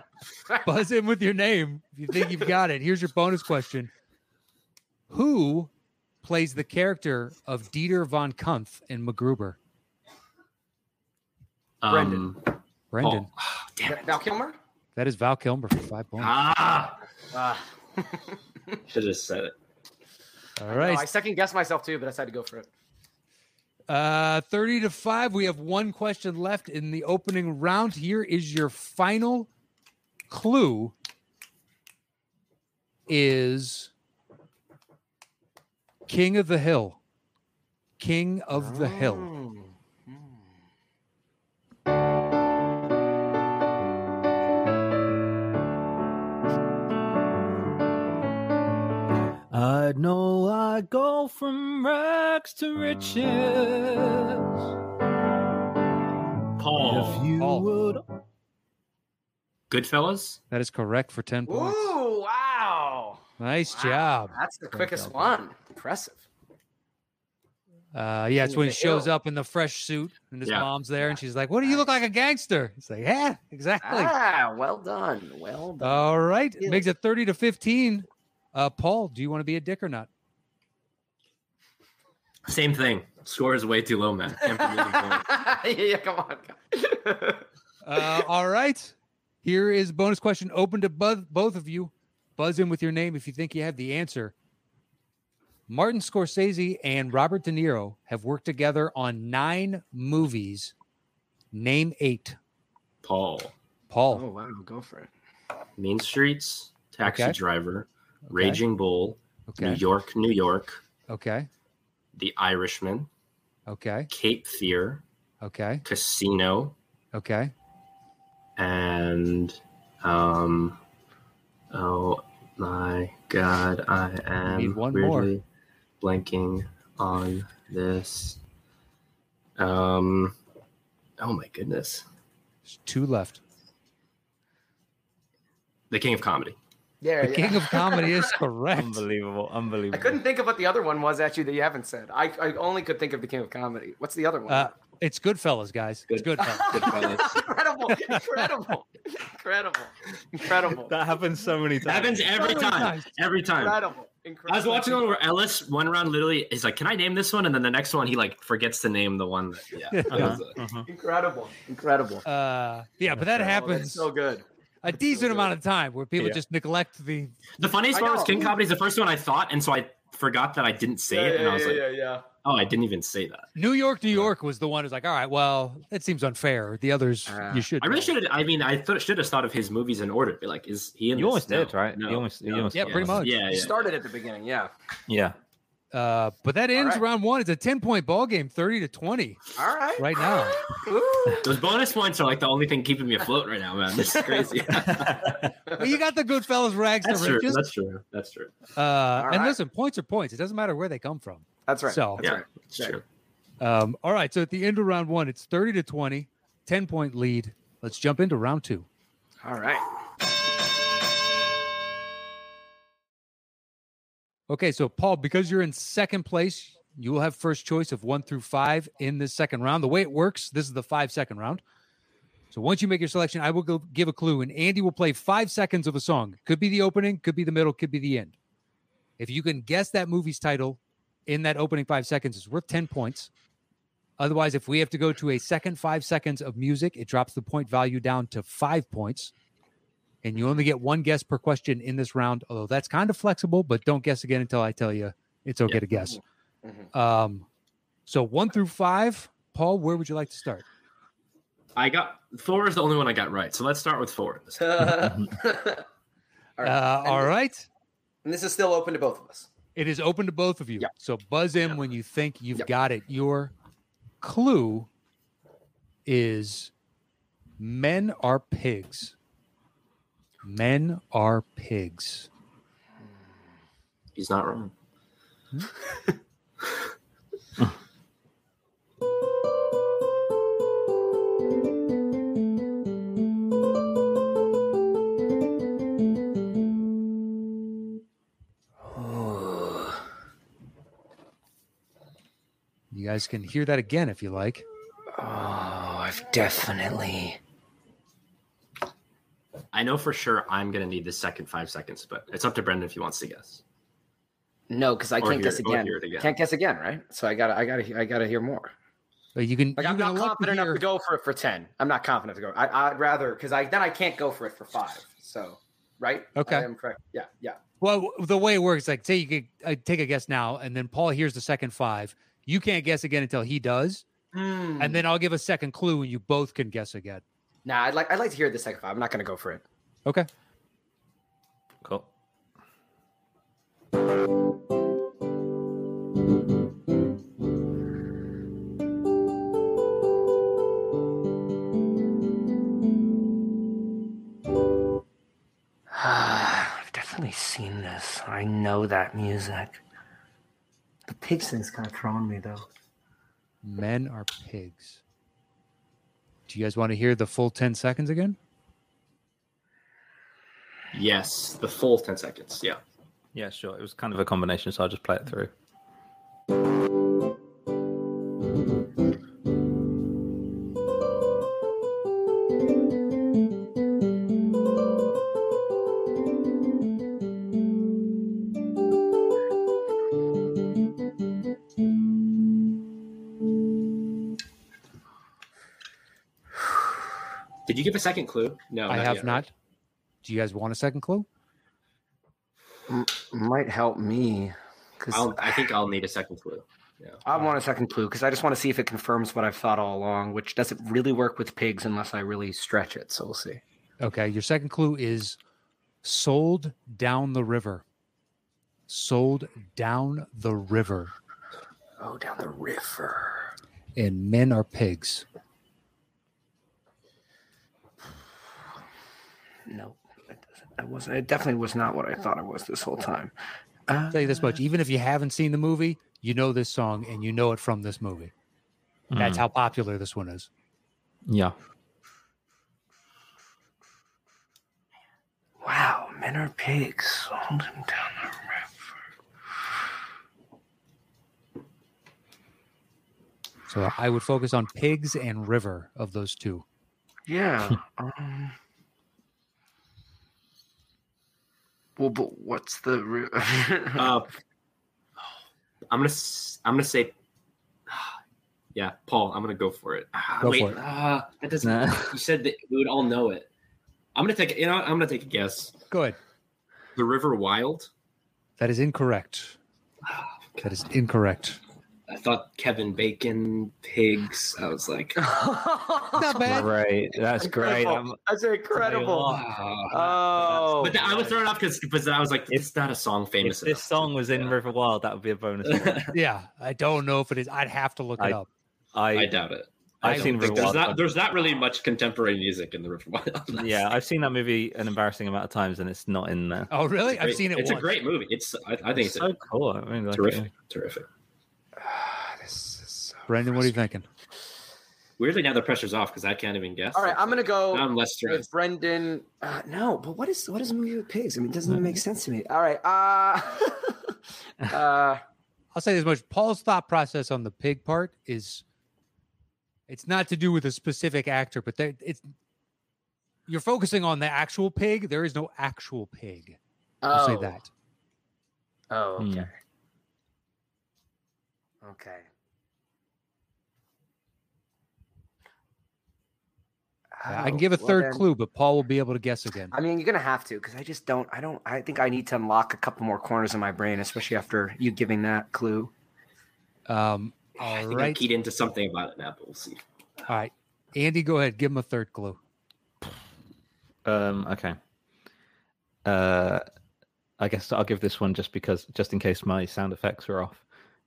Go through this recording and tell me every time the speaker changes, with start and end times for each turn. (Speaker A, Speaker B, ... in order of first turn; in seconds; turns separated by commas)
Speaker A: 0.6-3.9, Speaker A: 5.1-5.7, Speaker A: 6.2-9.6, Speaker B: 11.8-12.5, Speaker C: 11.9-12.2, Speaker A: 12.9-13.3, Speaker B: 13.0-14.2, Speaker C: 13.8-14.6, Speaker A: 14.9-16.4, Speaker B: 16.2-17.0, Speaker C: 17.3-18.4, Speaker B: 18.9-19.5, Speaker A: 20.6-21.1, Speaker C: 20.7-22.7, Speaker A: 23.9-29.5, Speaker A: 30.3-30.9, Speaker A: 33.1-33.9, Speaker A: 36.1-37.0, Speaker A: 38.0-39.3, Speaker C: 38.5-40.3, Speaker D: 49.5-54.5, Speaker B: 56.6-57.3, Speaker D: 56.7-58.0, Speaker A: 57.3-57.7, Speaker B: 59.7-60.4, Speaker A: 60.5-62.0, Speaker C: 61.5-66.2, Speaker A: 63.4-64.4, Speaker A: 67.9-74.1, Speaker C: 68.4-69.1, Speaker C: 71.0-71.9, Speaker C: 73.8-76.1, Speaker A: 75.8-80.1, Speaker B: 82.5-85.3, Speaker C: 84.5-87.4, Speaker A: 87.8-94.3, Speaker A: 95.7-100.7, Speaker A: 101.5-102.4, Speaker B: 103.0-103.5, Speaker A: 103.9-104.2, Speaker C: 104.1-105.1, Speaker B: 105.8-110.8, Speaker A: 107.0-107.4, Speaker A: 108.3-108.6, Speaker A: 109.5-109.8, Speaker A: 111.1-111.5, Speaker B: 112.2-113.1, Speaker A: 113.7-114.1, Speaker B: 114.1-115.0, Speaker A: 115.4-115.8, Speaker B: 115.8-116.8, Speaker A: 117.1-117.5, Speaker B: 118.6-120.8, Speaker B: 121.7-125.4, Speaker A: 124.4-125.3, Speaker B: 126.0-128.4, Speaker B: 129.6-130.3, Speaker B: 131.2-132.1, Speaker A: 132.7-133.4, Speaker B: 135.9-136.6, Speaker C: 137.0-138.4, Speaker A: 137.2-139.0, Speaker E: 138.8-140.2, Speaker C: 139.9-144.7, Speaker A: 144.5-147.0, Speaker B: 146.1-147.5, Speaker C: 146.4-150.9, Speaker A: 147.9-148.5, Speaker E: 150.7-152.4, Speaker B: 151.8-153.8, Speaker A: 152.3-153.2, Speaker C: 153.5-155.1, Speaker B: 154.5-160.6, Speaker A: 159.9-160.3, Speaker E: 160.1-160.9, Speaker C: 160.9-162.2, Speaker A: 162.3-164.1, Speaker C: 163.4-164.4, Speaker A: 164.8-167.3, Speaker C: 165.1-165.5, Speaker B: 167.6-171.9, Speaker C: 167.9-168.6, Speaker C: 171.1-172.2, Speaker B: 172.4-173.5, Speaker A: 173.6-178.1, Speaker C: 177.3-177.7, Speaker B: 177.8-183.8, Speaker E: 181.2-183.3, Speaker A: 182.7-183.4, Speaker C: 183.5-184.7, Speaker E: 185.1-185.4, Speaker A: 185.9-190.7, Speaker C: 186.8-187.0, Speaker C: 189.6-191.6, Speaker B: 191.4-195.5, Speaker C: 193.9-195.8, Speaker E: 194.9-195.3, Speaker A: 195.7-197.6, Speaker B: 197.0-198.5, Speaker A: 198.8-202.2, Speaker C: 199.2-199.6, Speaker C: 201.7-203.0, Speaker B: 202.2-203.0, Speaker A: 203.6-208.9, Speaker C: 209.4-209.9, Speaker A: 214.5-221.6, Speaker A: 222.5-228.3, Speaker A: 229.2-233.3, Speaker A: 234.2-239.3, Speaker A: 240.2-246.2, Speaker A: 246.9-247.5, Speaker A: 248.1-250.7, Speaker B: 251.8-255.0, Speaker C: 254.6-255.8, Speaker C: 256.6-257.3, Speaker A: 256.6-257.7, Speaker C: 258.2-259.5, Speaker A: 259.8-263.5, Speaker A: 264.2-264.9, Speaker A: 266.1-266.7, Speaker A: 267.6-269.1, Speaker A: 270.4-272.3, Speaker B: 274.1-274.7, Speaker C: 288.9-290.0, Speaker A: 292.9-294.6, Speaker C: 295.2-297.4, Speaker B: 299.7-303.6, Speaker C: 304.7-308.7, Speaker B: 305.2-306.3, Speaker A: 309.4-310.8, Speaker C: 309.8-317.6, Speaker A: 316.4-316.7, Speaker A: 317.8-324.0, Speaker C: 324.3-325.0, Speaker A: 324.8-327.2, Speaker C: 327.6-329.6, Speaker E: 331.8-332.1, Speaker C: 345.9-349.8, Speaker C: 351.1-352.7, Speaker A: 353.6-355.0, Speaker A: 356.5-358.4, Speaker B: 360.9-362.8, Speaker E: 363.3-365.5, Speaker B: 387.7-389.4, Speaker A: 388.9-389.5, Speaker A: 390.2-391.3, Speaker C: 392.9-395.7, Speaker B: 395.1-397.2, Speaker C: 397.2-403.6, Speaker A: 404.0-405.4, Speaker A: 406.0-407.8, Speaker A: 408.9-411.1, Speaker C: 412.0-413.5, Speaker A: 414.0-415.2, Speaker C: 419.7-423.3, Speaker C: 423.9-424.6, Speaker A: 424.1-428.3, Speaker E: 429.1-429.4, Speaker A: 429.1-430.5, Speaker E: 431.3-431.6, Speaker C: 435.6-438.6, Speaker A: 443.7-446.6, Speaker C: 447.3-448.6, Speaker C: 452.0-454.1, Speaker B: 454.0-454.3, Speaker B: 455.9-457.1, Speaker B: 458.8-463.5, Speaker A: 460.4-460.8, Speaker E: 461.6-462.2, Speaker B: 464.1-465.8, Speaker A: 465.9-466.2, Speaker B: 467.0-467.9, Speaker A: 468.6-469.6, Speaker B: 470.1-470.7, Speaker A: 470.6-471.6, Speaker B: 472.1-475.2, Speaker C: 475.2-476.7, Speaker A: 476.1-476.7, Speaker E: 476.5-478.2, Speaker C: 477.4-481.2, Speaker E: 478.8-481.3, Speaker B: 479.3-484.6, Speaker E: 483.4-486.1, Speaker B: 485.6-486.1, Speaker A: 486.1-488.5, Speaker E: 488.9-489.4, Speaker B: 489.1-493.8, Speaker E: 490.0-491.0, Speaker A: 490.0-490.8, Speaker E: 493.6-496.7, Speaker A: 496.7-497.9, Speaker B: 497.1-499.3, Speaker E: 499.0-500.5, Speaker B: 500.1-501.1, Speaker C: 501.8-503.3, Speaker A: 503.3-504.1, Speaker B: 505.2-508.5, Speaker C: 506.9-515.2, Speaker A: 515.7-518.6, Speaker A: 519.9-522.3, Speaker A: 523.5-526.6, Speaker C: 527.0-527.6, Speaker A: 527.1-527.7, Speaker C: 528.9-529.5, Speaker E: 529.2-529.5, Speaker C: 531.8-532.3, Speaker C: 537.1-538.2, Speaker A: 537.3-539.7, Speaker C: 539.7-545.9, Speaker A: 546.9-548.2, Speaker B: 547.6-549.8, Speaker A: 550.3-552.4, Speaker E: 554.0-554.8, Speaker E: 556.0-556.6, Speaker E: 557.4-560.6